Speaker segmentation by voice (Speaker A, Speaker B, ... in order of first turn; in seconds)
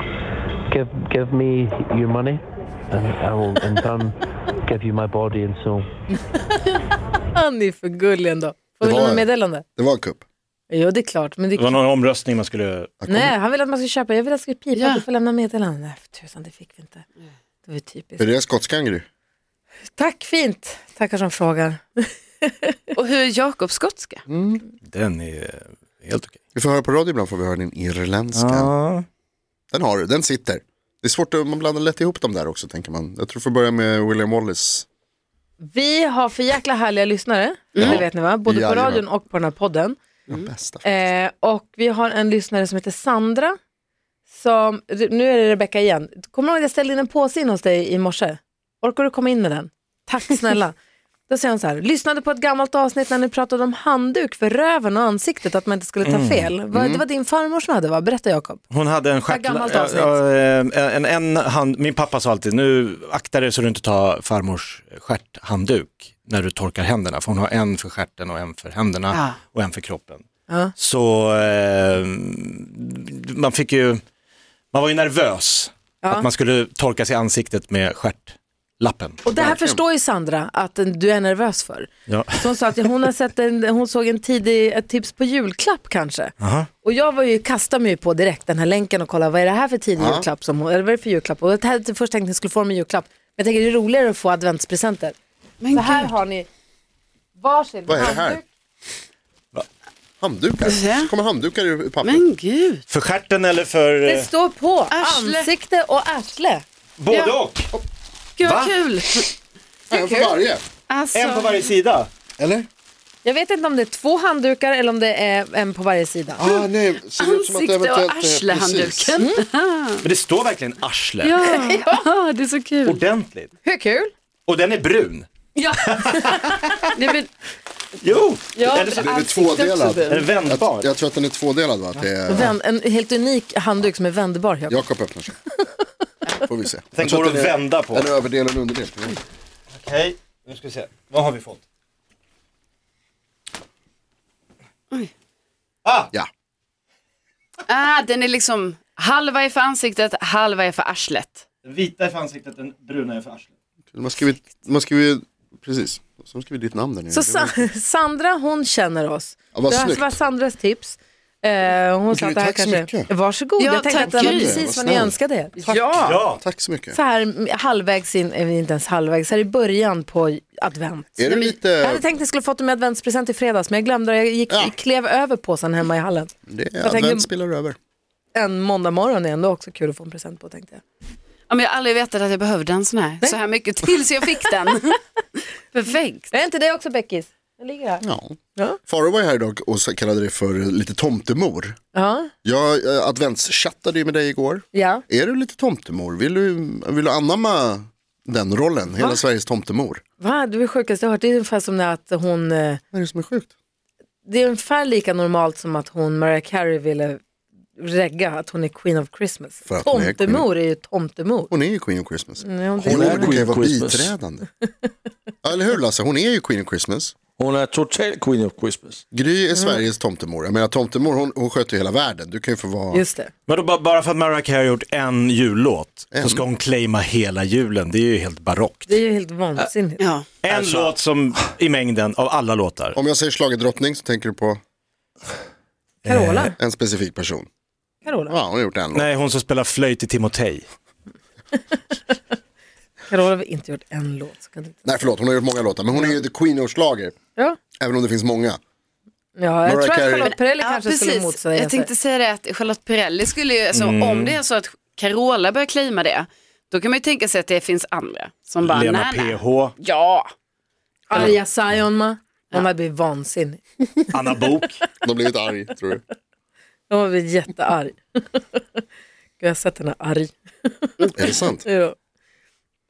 Speaker A: 0.7-5.9
Speaker B: 6.3-6.8, 7.3-9.6, 10.7-11.7, 13.1-17.0, 17.6-18.3, 19.9-22.8, 35.6-40.0, 40.8-43.5, 44.3-50.8, 51.3-58.6, 59.3-60.2, 70.5-70.7, 76.0-76.3, 79.2-95.2, 95.7-96.5, 97.4-98.4, 104.0-106.6, 109.9-110.3, 113.2-116.4, 121.4-122.0, 123.6-124.1, 125.5-126.9, 128.5-130.1, 132.3-134.9, 157.1-166.2, 166.9-177.3, 178.3-180.8, 186.3-188.0, 191.9-192.3, 194.7-195.0, 199.0-199.2, 200.2-202.8, 204.2-207.2, 207.8-211.5, 212.4-213.4, 219.6-219.8, 222.9-223.3, 228.9-230.0, 236.1-236.5, 238.0-238.4, 241.7-242.0, 243.1-244.8, 249.3-251.9, 261.1-264.5, 266.9-268.6, 269.4-271.9
Speaker C: 8.8-10.2, 13.0-13.3, 18.2-19.1, 24.3-24.6, 26.5-28.7, 29.7-34.9, 37.8-39.0, 40.3-41.1, 56.7-57.0, 90.0-90.3, 97.9-98.4, 100.2-102.2, 109.9-110.6, 112.4-112.7, 116.4-119.2, 128.8-132.5, 134.7-135.4, 136.4-139.2, 153.9-157.7, 159.5-160.2, 162.1-163.1, 163.9-167.0, 171.2-172.1, 176.5-177.8, 188.0-191.8, 192.4-200.0, 202.9-203.5, 209.7-210.5, 211.5-214.4, 215.4-217.1, 219.1-223.0, 226.1-226.4, 232.9-234.6, 236.6-237.5, 238.3-239.1, 244.8-247.1, 247.8-248.6, 249.6-250.3, 265.0-266.0, 271.1-271.6
Speaker D: 11.6-13.0, 24.8-26.4, 28.3-29.1, 56.0-56.5, 58.7-70.2, 70.8-74.0, 74.7-79.5, 82.1-82.4, 86.4-86.7, 102.9-104.3, 107.0-107.7, 111.1-112.1, 120.0-121.3, 122.9-123.5, 124.5-126.8, 128.0-128.9, 130.1-130.9, 136.9-138.1, 139.7-141.6, 145.8-146.1, 151.6-153.5, 166.1-166.4, 223.5-228.9, 230.4-233.0, 236.0-236.5, 238.9-240.7, 253.7-254.4, 258.6-259.7, 264.1-264.8
Speaker E: 14.7-15.0, 22.9-24.2, 37.7-38.0, 69.1-69.4, 95.6-96.1, 100.6-101.1, 102.0-102.8, 104.9-105.5, 107.1-107.4, 108.4-109.3, 110.9-111.7, 116.4-120.0, 121.2-123.0, 126.9-127.3, 128.7-129.2, 147.7-151.4, 163.6-164.6, 165.7-166.0, 181.5-185.0, 185.7-186.3, 230.0-230.3, 250.2-260.3
Speaker F: 212.8-214.1, 217.4-219.0, 230.5-231.5